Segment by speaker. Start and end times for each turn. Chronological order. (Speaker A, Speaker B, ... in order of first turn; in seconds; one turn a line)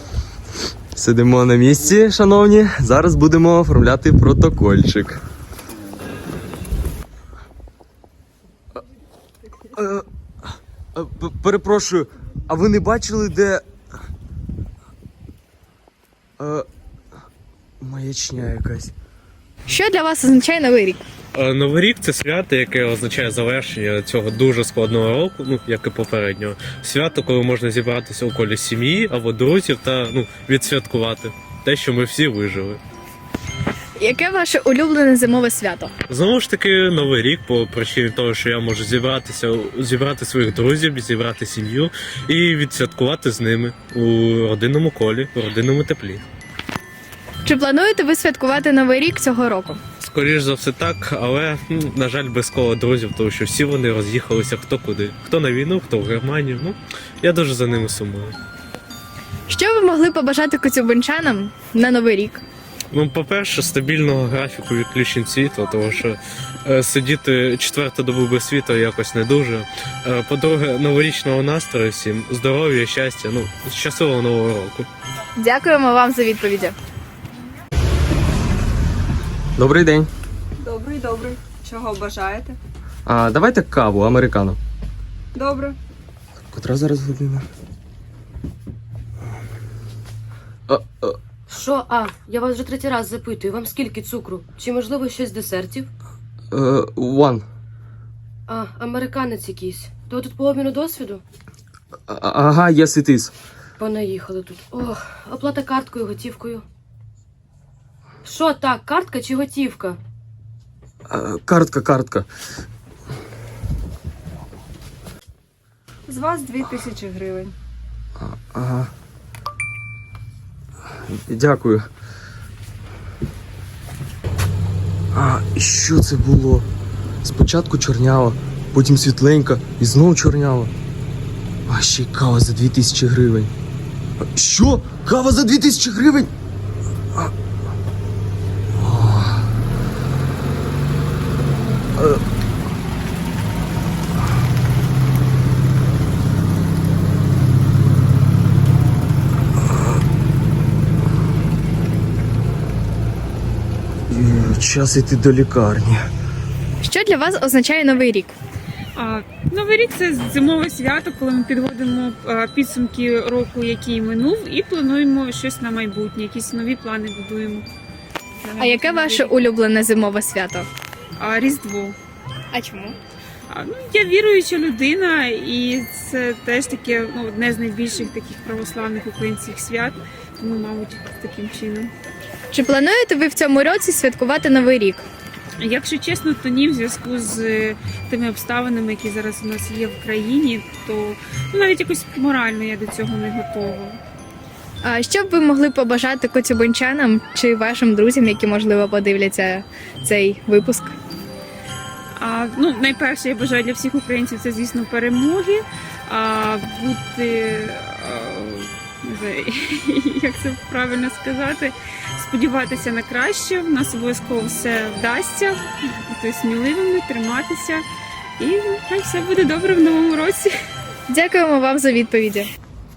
Speaker A: 0.9-5.2
Speaker A: 9.7-10.1
Speaker A: 10.9-13.7
Speaker A: 16.4-16.7
Speaker A: 17.8-18.9
Speaker B: 19.7-21.0
Speaker C: 21.3-32.8
Speaker B: 34.0-35.9
Speaker C: 36.1-46.2
Speaker B: 47.4-49.8
Speaker C: 50.0-58.4
Speaker B: 59.5-62.4
Speaker C: 62.9-74.9
Speaker B: 75.4-76.8
Speaker A: 79.6-80.1
Speaker D: 80.6-82.5
Speaker A: 83.1-84.6
Speaker D: 85.3-85.8
Speaker A: 86.5-87.5
Speaker A: 90.7-91.2
Speaker E: 91.5-95.9
Speaker A: 96.5-97.5
Speaker E: 98.5-101.2
Speaker A: 102.1-103.3
Speaker E: 103.8-106.7
Speaker E: 108.2-110.0
Speaker A: 111.1-112.3
Speaker D: 116.1-117.5
Speaker A: 118.2-118.9
Speaker A: 121.1-121.9
Speaker A: 125.1-126.7
Speaker A: 127.2-130.7
Speaker A: 131.7-133.5
Speaker A: 134.2-136.3
Speaker A: 138.8-139.5
Speaker A: 142.0-142.2
Speaker A: 154.1-156.1
Speaker B: 156.8-158.4
Speaker F: 158.9-167.7
Speaker F: 168.4-169.4
Speaker B: 168.6-170.7
Speaker F: 171.2-172.0
Speaker B: 172.5-173.0
Speaker F: 173.5-181.9
Speaker B: 182.5-185.0
Speaker F: 185.6-194.0
Speaker B: 194.8-200.9
Speaker F: 202.2-217.9
Speaker F: 218.4-220.5
Speaker B: 221.1-222.5